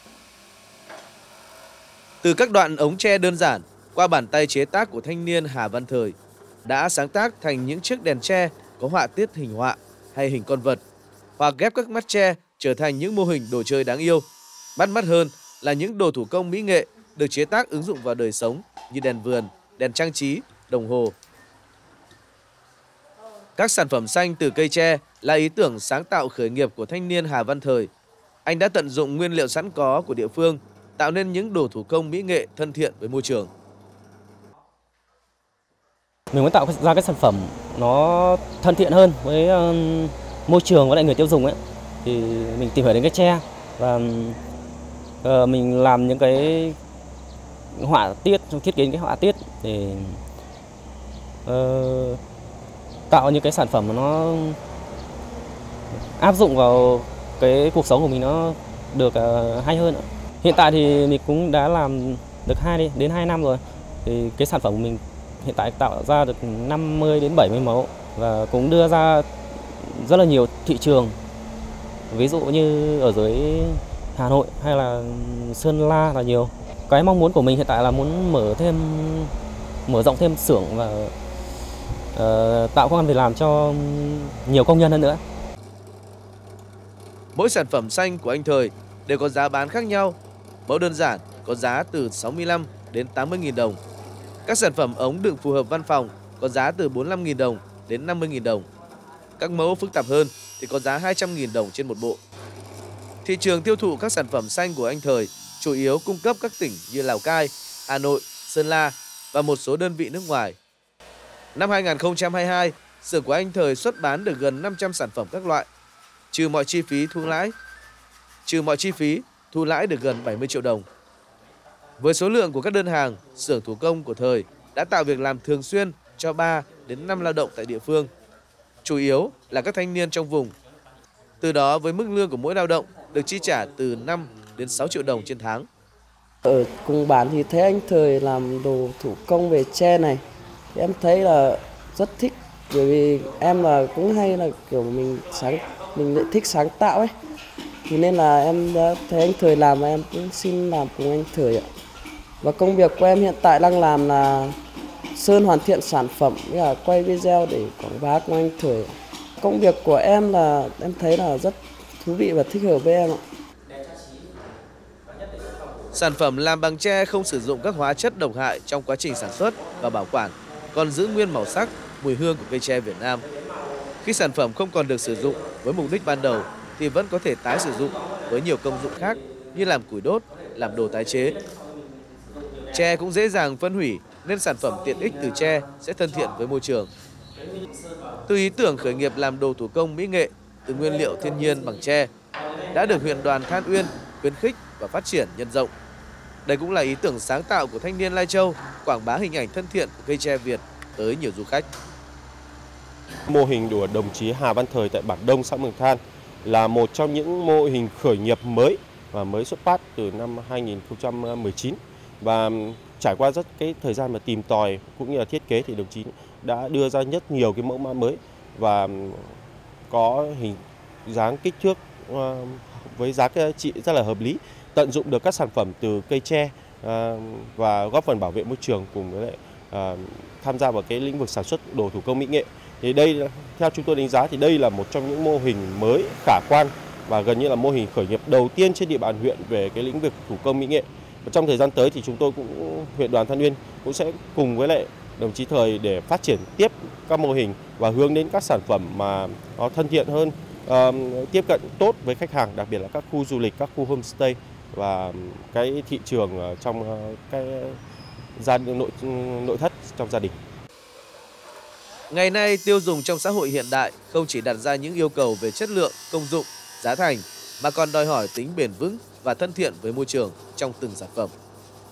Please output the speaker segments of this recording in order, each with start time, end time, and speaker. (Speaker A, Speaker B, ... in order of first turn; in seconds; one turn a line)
Speaker A: 2.2-10.8
Speaker A: 11.4-21.1
Speaker A: 23.6-27.9
Speaker A: 28.4-33.5
Speaker B: 36.3-44.4
Speaker B: 45.2-46.8
Speaker B: 47.7-50.2
Speaker B: 51.5-52.2
Speaker B: 53.1-54.6
Speaker B: 56.2-69.3
Speaker B: 69.8-71.2
Speaker B: 72.1-79.3
Speaker B: 79.9-81.1
Speaker B: 82.1-85.2
Speaker A: 87.3-93.8
Speaker A: 94.5-98.7
Speaker A: 99.4-102.2
Speaker A: 103.2-110.6
Speaker A: 111.5-115.7
Speaker A: 116.3-117.5
Speaker A: 118.5-120.8
Speaker A: 122.0-128.1
Speaker A: 128.8-130.5
Speaker A: 131.4-135.7
Speaker C: 136.4-140.2
Speaker C: 140.7-147.1
Speaker C: 147.9-151.7
Speaker C: 152.4-154.6
Speaker C: 155.1-163.2
Speaker B: 163.7-164.4
Speaker B: 165.0-166.0
Speaker A: 165.9-173.2
Speaker B: 167.4-167.7
Speaker B: 169.1-171.9
Speaker B: 173.1-174.1
Speaker A: 174.0-181.4
Speaker B: 174.9-176.7
Speaker B: 177.5-179.7
Speaker B: 180.2-183.0
Speaker A: 182.7-186.9
Speaker B: 184.6-186.3
Speaker B: 187.3-188.3
Speaker A: 188.3-192.1
Speaker B: 190.7-191.8
Speaker B: 192.3-193.3
Speaker A: 192.7-195.7
Speaker A: 196.4-201.6
Speaker D: 203.3-219.4
Speaker D: 219.9-257.8
Speaker D: 258.4-260.4
Speaker A: 262.1-271.3